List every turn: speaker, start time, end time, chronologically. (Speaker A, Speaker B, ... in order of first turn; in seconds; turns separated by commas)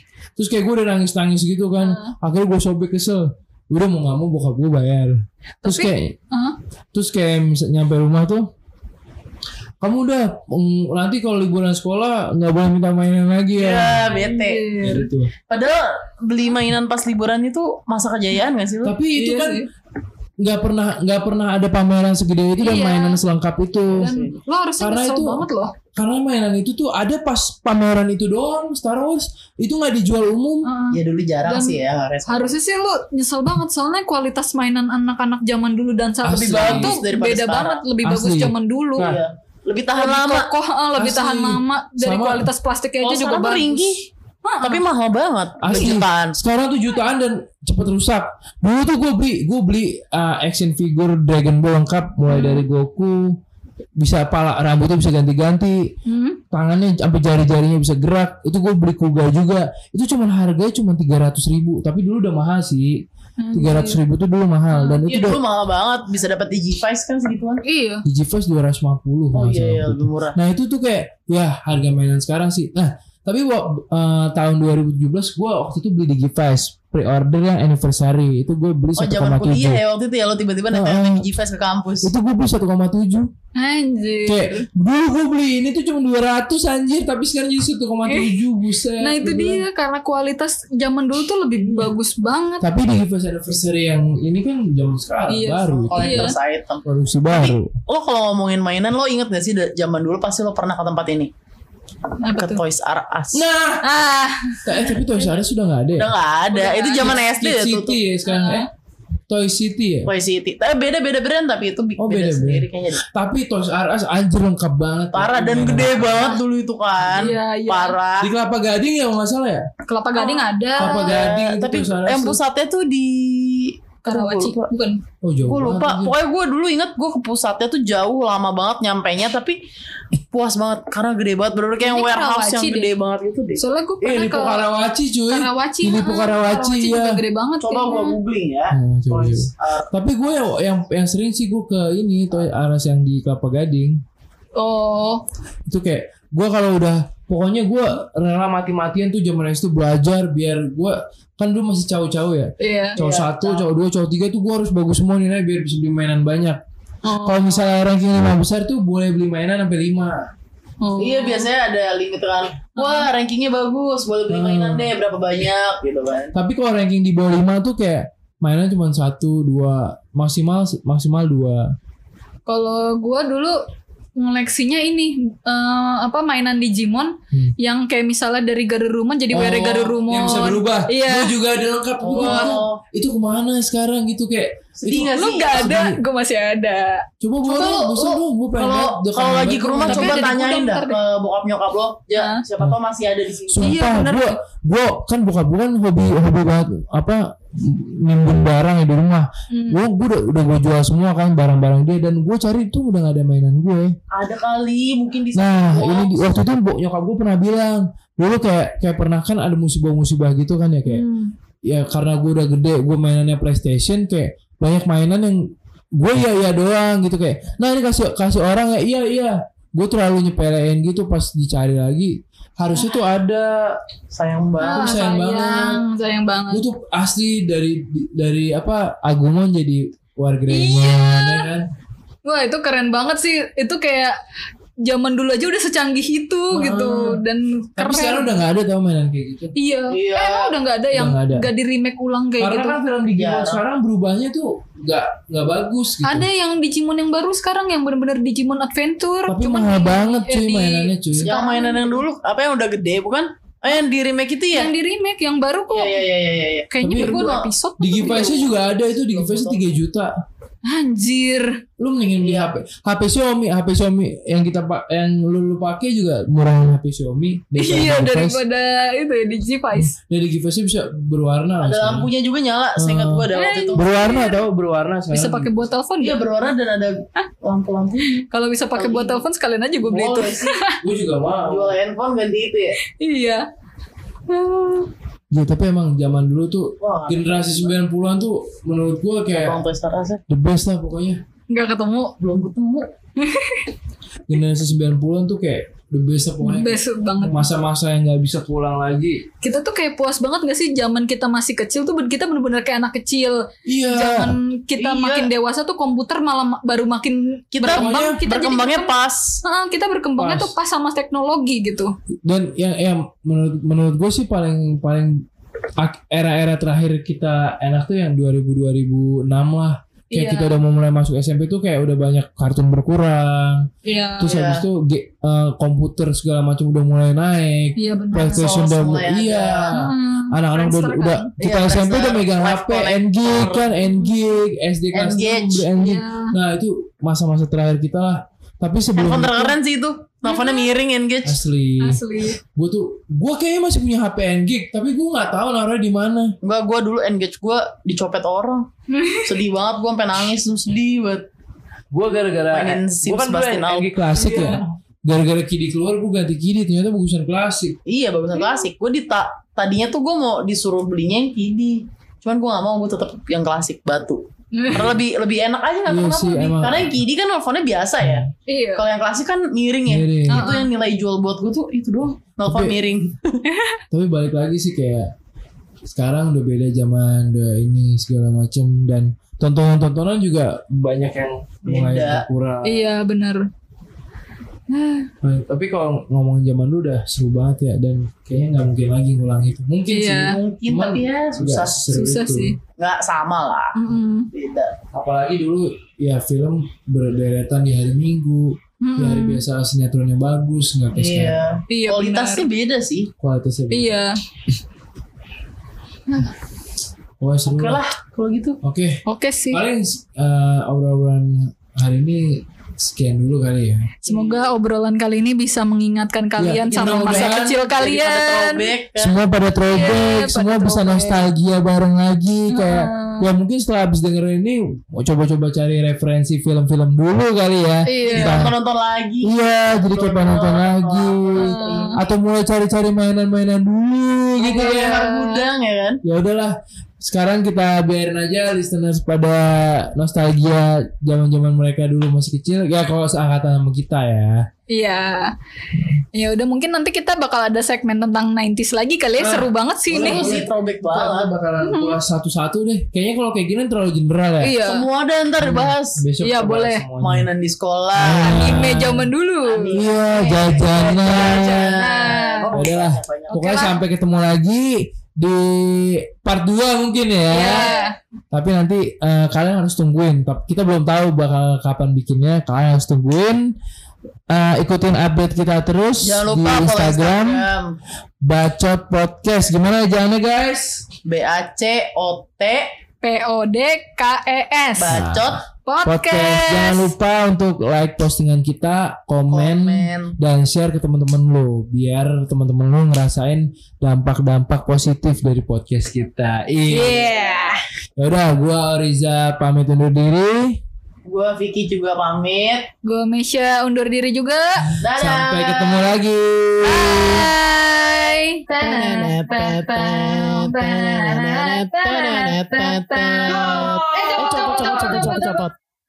Speaker A: 0.4-6.1, Speaker B: 1.8-2.1, Speaker B: 5.6-6.5, Speaker A: 6.9-8.4, Speaker A: 9.8-14.2, Speaker C: 13.6-14.7, Speaker B: 14.2-15.1, Speaker A: 14.8-15.3, Speaker C: 15.5-18.9, Speaker A: 18.8-19.6, Speaker B: 19.1-19.7, Speaker A: 20.4-24.1, Speaker B: 22.6-23.2, Speaker C: 24.0-24.3, Speaker B: 24.0-25.7, Speaker A: 24.8-30.7, Speaker B: 30.6-39.1, Speaker C: 30.9-32.5, Speaker A: 36.2-37.0, Speaker C: 36.3-37.8, Speaker A: 38.0-39.2, Speaker C: 39.0-40.5, Speaker B: 40.0-43.9, Speaker A: 41.0-42.5, Speaker C: 43.0-44.1, Speaker B: 44.4-44.8, Speaker C: 44.6-46.4, Speaker A: 45.6-53.4, Speaker B: 52.3-52.6, Speaker A: 54.0-55.8, Speaker B: 56.1-56.4, Speaker A: 56.5-65.4, Speaker B: 63.4-64.0, Speaker B: 64.7-65.0, Speaker C: 65.0-67.6, Speaker B: 67.6-68.0, Speaker A: 68.0-79.8, Speaker C: 69.3-70.4, Speaker C: 79.0-82.1, Speaker A: 80.7-81.3, Speaker A: 82.0-83.3, Speaker B: 83.5-84.7, Speaker A: 84.2-89.6, Speaker B: 88.1-88.4, Speaker B: 89.0-92.7, Speaker A: 92.6-96.3, Speaker B: 95.3-96.3, Speaker C: 95.9-101.3, Speaker A: 96.8-97.7, Speaker B: 102.2-102.6, Speaker C: 102.4-103.5, Speaker A: 103.3-103.8, Speaker B: 103.8-105.0, Speaker A: 104.6-106.1, Speaker C: 105.9-108.0, Speaker B: 106.5-107.2, Speaker A: 107.0-108.7, Speaker B: 108.2-108.7, Speaker A: 109.3-110.1, Speaker C: 110.0-113.0, Speaker A: 112.0-116.3, Speaker C: 115.1-118.3, Speaker A: 117.0-117.3, Speaker B: 117.1-118.0, Speaker A: 118.2-119.7, Speaker B: 119.9-121.1, Speaker C: 120.2-124.7, Speaker A: 120.8-122.4, Speaker B: 124.0-125.0, Speaker A: 125.2-126.1, Speaker C: 125.5-129.6, Speaker C: 130.3-133.6, Speaker B: 131.8-132.9, Speaker B: 133.6-134.6, Speaker A: 134.0-137.2, Speaker B: 135.3-138.2, Speaker C: 137.6-139.9, Speaker A: 138.7-144.0, Speaker B: 144.6-145.2, Speaker A: 145.7-156.6, Speaker B: 152.6-153.0, Speaker C: 153.0-153.6, Speaker B: 157.0-157.6, Speaker A: 157.2-160.2, Speaker B: 160.8-161.4, Speaker C: 161.0-166.3, Speaker B: 162.8-163.1, Speaker A: 164.3-164.9, Speaker A: 166.3-171.7, Speaker B: 172.5-173.6, Speaker B: 174.2-181.3, Speaker A: 179.3-186.0, Speaker C: 182.0-182.8, Speaker B: 182.2-182.5, Speaker C: 184.8-185.8, Speaker B: 185.0-187.0, Speaker A: 187.2-190.3, Speaker C: 187.4-193.8, Speaker B: 189.8-191.0, Speaker B: 192.2-192.4, Speaker A: 193.5-203.9, Speaker B: 193.6-194.3, Speaker B: 199.5-199.8, Speaker C: 204.1-206.2, Speaker A: 205.3-211.0, Speaker B: 210.8-211.3, Speaker A: 211.7-223.7, Speaker C: 224.1-225.0, Speaker B: 224.6-226.6, Speaker A: 224.7-225.8, Speaker A: 226.5-231.7, Speaker B: 230.5-231.4, Speaker B: 232.2-234.2, Speaker B: 234.8-238.3, Speaker A: 236.5-237.2, Speaker A: 237.8-239.5, Speaker B: 239.6-242.8, Speaker C: 239.9-240.5, Speaker A: 240.9-241.5, Speaker A: 242.4-246.3, Speaker C: 243.1-243.6, Speaker B: 246.0-252.0, Speaker A: 249.3-251.3, Speaker C: 251.2-254.7, Speaker B: 254.5-256.0, Speaker C: 255.7-257.5, Speaker B: 256.7-258.4, Speaker A: 256.8-257.2, Speaker A: 257.8-260.1, Speaker C: 259.1-259.6, Speaker B: 260.6-261.6, Speaker A: 261.8-268.4, Speaker C: 262.2-262.5, Speaker B: 267.6-269.9, Speaker A: 269.8-272.1, Speaker C: 271.6-274.2, Speaker A: 272.8-275.5, Speaker B: 273.3-274.4, Speaker B: 275.1-276.2, Speaker C: 276.0-279.2, Speaker B: 278.3-280.8, Speaker C: 279.9-280.6, Speaker A: 280.8-281.8, Speaker C: 281.4-282.8, Speaker B: 283.0-283.4, Speaker B: 284.3-284.9, Speaker A: 285.3-289.6, Speaker C: 286.8-287.7, Speaker C: 289.3-290.2, Speaker A: 290.3-291.2, Speaker B: 291.5-292.1, Speaker C: 292.2-292.9, Speaker B: 293.2-293.7, Speaker A: 294.3-299.2, Speaker B: 296.4-297.4, Speaker B: 299.4-308.9, Speaker A: 303.6-304.4, Speaker C: 304.8-305.3, Speaker C: 307.5-309.4, Speaker A: 307.7-308.2, Speaker B: 309.4-311.9, Speaker A: 310.2-310.5, Speaker A: 312.2-315.2, Speaker A: 315.8-339.6, Speaker B: 320.1-320.5, Speaker B: 323.8-324.3, Speaker C: 324.3-324.6, Speaker B: 327.8-328.5, Speaker C: 328.3-329.7, Speaker B: 329.7-331.3, Speaker C: 331.4-333.6, Speaker C: 334.9-335.7, Speaker B: 335.8-336.3, Speaker C: 338.9-341.4, Speaker B: 340.2-340.7, Speaker A: 341.2-346.3, Speaker B: 341.8-342.4, Speaker C: 346.4-348.7, Speaker B: 348.9-349.4, Speaker C: 349.2-351.2, Speaker A: 351.9-357.8, Speaker C: 352.5-353.9, Speaker B: 354.1-354.6, Speaker C: 357.9-373.4, Speaker B: 364.5-364.9, Speaker A: 365.9-367.0, Speaker A: 368.0-368.3, Speaker B: 368.5-368.8, Speaker A: 369.9-370.5, Speaker B: 370.3-370.6, Speaker A: 372.4-372.8, Speaker B: 373.5-373.8, Speaker A: 373.9-375.1, Speaker A: 375.8-382.8, Speaker C: 381.6-382.2, Speaker B: 382.6-383.5, Speaker B: 384.7-385.1, Speaker A: 385.2-392.5, Speaker B: 389.9-390.4, Speaker C: 390.2-391.9, Speaker B: 391.9-392.6, Speaker C: 392.8-393.8, Speaker B: 393.7-394.3, Speaker C: 394.3-394.8, Speaker A: 394.9-401.4, Speaker B: 398.8-399.4, Speaker C: 400.9-403.1, Speaker B: 401.7-402.4, Speaker A: 403.2-403.9, Speaker B: 403.7-404.1, Speaker A: 407.2-407.8, Speaker C: 407.4-408.6, Speaker A: 408.6-413.9, Speaker B: 409.1-409.6, Speaker B: 414.0-418.6, Speaker C: 414.1-414.5, Speaker A: 416.4-417.5, Speaker C: 416.7-419.1, Speaker A: 419.0-428.5, Speaker B: 419.7-421.2, Speaker B: 422.5-423.2, Speaker B: 427.9-428.5, Speaker C: 428.1-432.0, Speaker A: 429.2-435.0, Speaker B: 431.4-431.9, Speaker B: 434.4-435.4, Speaker C: 434.4-436.0, Speaker A: 436.0-444.5, Speaker B: 444.7-445.3, Speaker B: 446.1-450.3, Speaker A: 449.2-454.6, Speaker C: 449.9-451.3, Speaker B: 451.6-451.9, Speaker B: 454.4-454.9, Speaker C: 454.6-456.0, Speaker A: 455.4-457.3, Speaker B: 456.2-456.8, Speaker C: 457.0-458.6, Speaker A: 457.9-459.1, Speaker B: 458.2-459.8, Speaker C: 459.4-463.4, Speaker A: 459.7-461.8, Speaker B: 460.4-462.4, Speaker A: 462.5-467.7, Speaker B: 463.3-463.8, Speaker B: 467.3-467.9, Speaker C: 467.5-467.8, Speaker A: 468.3-473.4, Speaker A: 474.3-477.4, Speaker C: 476.0-477.7, Speaker A: 478.2-480.8, Speaker C: 481.1-482.7, Speaker B: 483.0-485.0, Speaker C: 484.8-485.4, Speaker A: 484.9-497.0, Speaker B: 485.6-486.9, Speaker C: 489.3-490.1, Speaker B: 496.7-497.6, Speaker C: 496.9-497.4, Speaker A: 498.0-500.6, Speaker C: 501.1-502.7, Speaker B: 502.8-504.7, Speaker A: 504.7-507.3, Speaker C: 504.8-505.9, Speaker B: 506.6-515.5, Speaker C: 508.6-515.5, Speaker A: 513.3-515.0